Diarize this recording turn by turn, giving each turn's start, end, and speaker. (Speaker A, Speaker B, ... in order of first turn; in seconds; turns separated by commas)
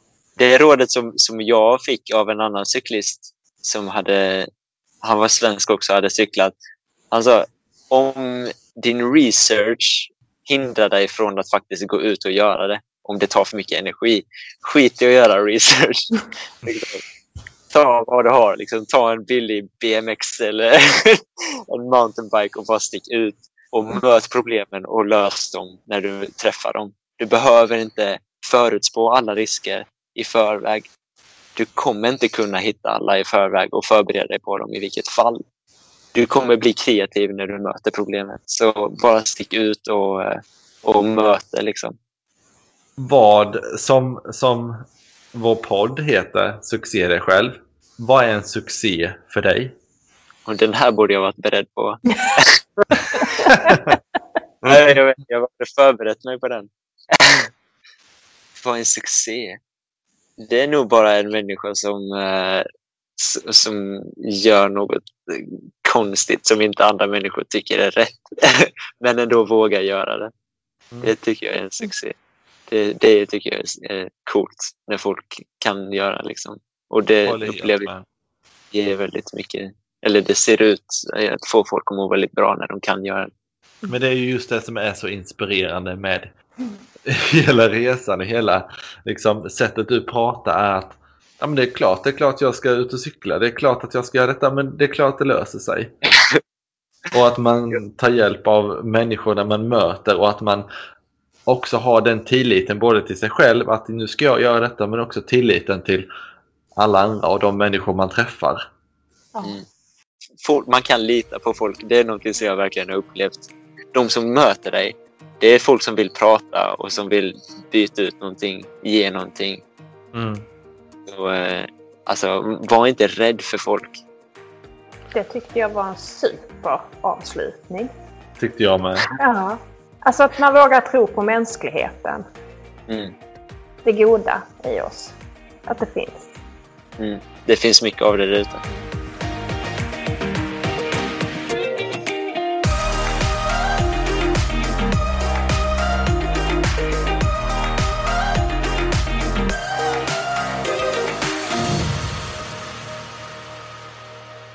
Speaker A: 0.4-4.5, Speaker A: 5.0-6.5, Speaker A: 7.1-17.0, Speaker A: 17.7-30.9, Speaker A: 31.6-35.4, Speaker A: 36.1-42.0, Speaker B: 43.0-49.8, Speaker A: 50.5-53.5, Speaker C: 53.4-53.8, Speaker B: 53.5-53.9, Speaker B: 54.6-55.0, Speaker A: 54.7-57.5, Speaker A: 58.6-59.6, Speaker A: 60.4-62.6, Speaker A: 63.2-70.3, Speaker A: 71.0-72.1, Speaker A: 72.7-77.9, Speaker B: 77.2-78.1, Speaker A: 78.7-83.3, Speaker B: 83.9-86.3, Speaker B: 87.1-95.9, Speaker A: 96.0-96.4, Speaker B: 97.1-100.7, Speaker B: 101.5-106.1, Speaker B: 106.8-108.7, Speaker A: 110.4-119.6, Speaker B: 120.1-120.5, Speaker A: 121.1-124.0, Speaker C: 125.1-127.9, Speaker B: 128.4-129.1, Speaker C: 129.2-132.2, Speaker A: 132.9-133.1, Speaker C: 133.8-135.1, Speaker C: 135.7-136.3, Speaker A: 137.0-138.7